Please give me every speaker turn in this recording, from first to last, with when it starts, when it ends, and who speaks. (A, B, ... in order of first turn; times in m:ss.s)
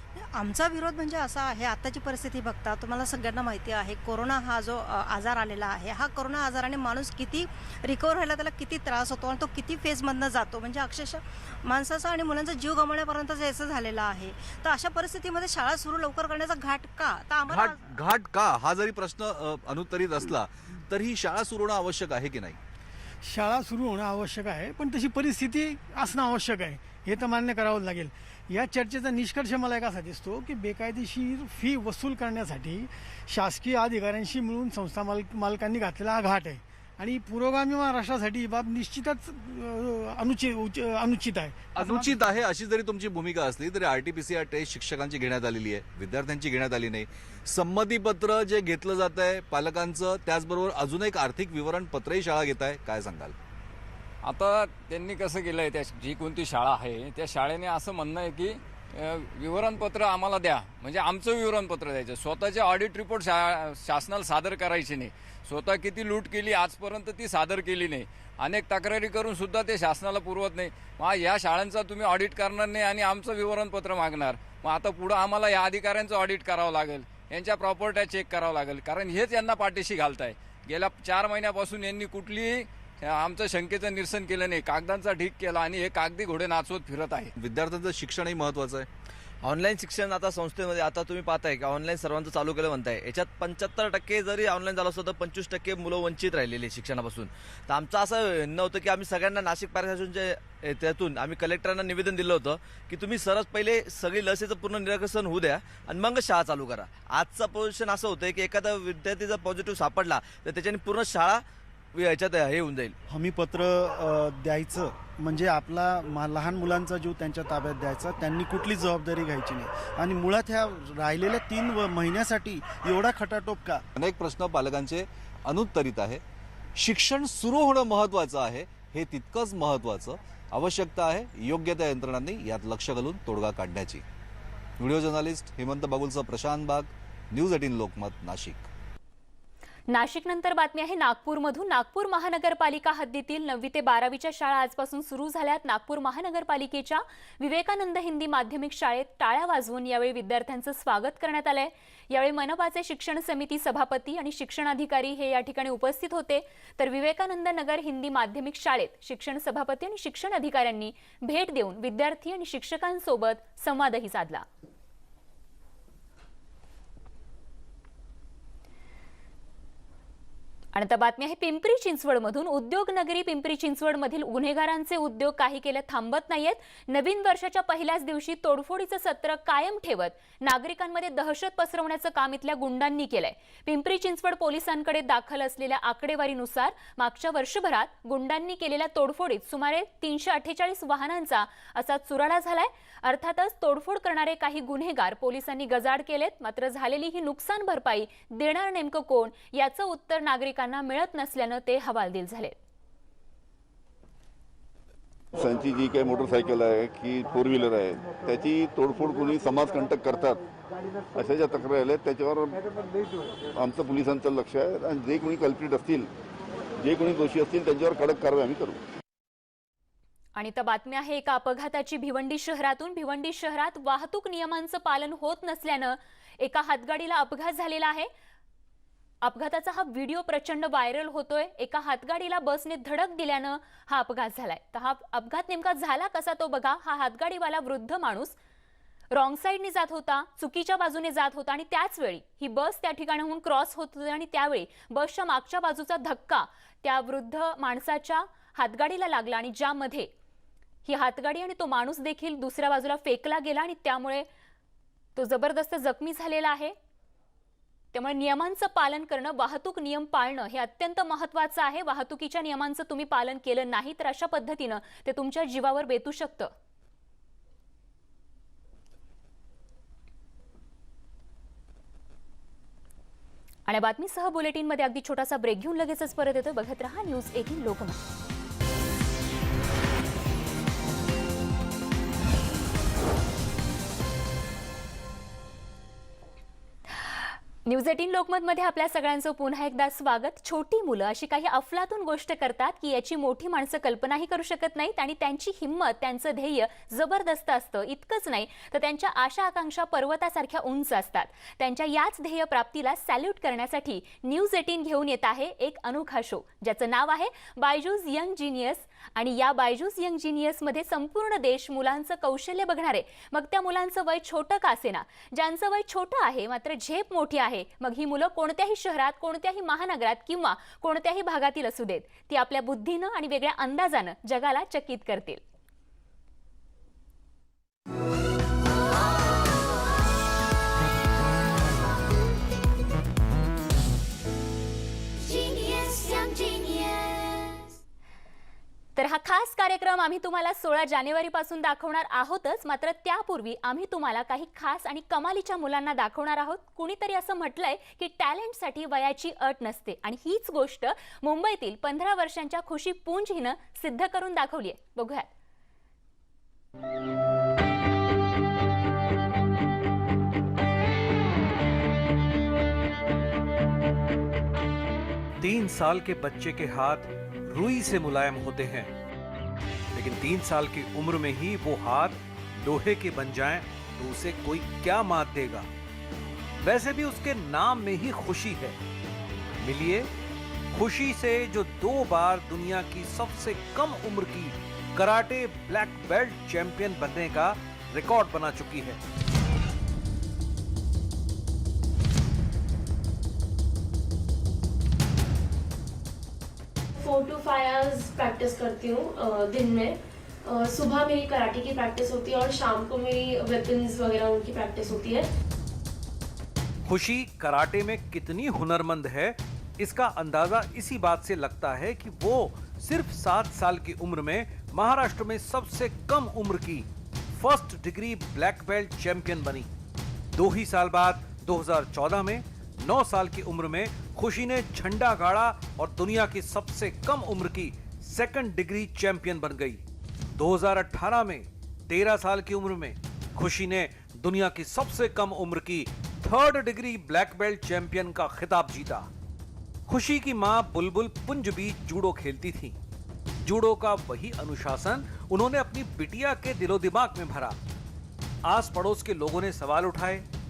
0:00.2-0:17.8 A
0:17.5-0:22.6 B
0:23.2-0:42.1 C
0:41.8-0:53.4 B
0:54.2-1:27.3 D
1:27.4-1:28.9 B
1:29.5-1:30.2 A
1:29.6-1:51.4 E
1:30.8-1:33.0 A
1:35.9-1:36.8 A
1:45.7-1:46.6 A
1:49.5-1:49.9 A
1:52.0-1:52.9 E
1:52.3-1:52.8 A
1:53.1-2:03.8 F
2:04.0-2:06.2 B
2:06.8-2:14.0 B
2:14.8-2:18.7 B
2:19.9-2:44.4 G
2:50.7-3:22.6 G
3:25.4-3:30.4 H
3:31.2-3:32.6 H
3:33.6-3:36.1 H
3:36.8-3:38.8 H
3:40.4-3:48.1 G
3:49.2-3:58.4 G
3:59.1-4:10.1 G
4:10.9-4:14.2 G
4:15.2-4:16.7 G
4:17.9-4:26.5 G
4:33.7-4:38.0 G
4:47.0-5:25.4 G
5:39.0-5:55.3 G
6:05.4-6:08.9 I
6:09.9-6:15.7 I
6:16.6-6:18.8 I
6:19.6-6:20.1 I
6:20.7-6:29.0 I
6:37.0-6:45.3 J
6:46.9-6:59.7 I
7:00.4-7:09.8 I
7:10.4-7:19.1 I
7:19.9-7:22.8 I
7:23.4-7:27.6 I
7:28.5-7:30.2 I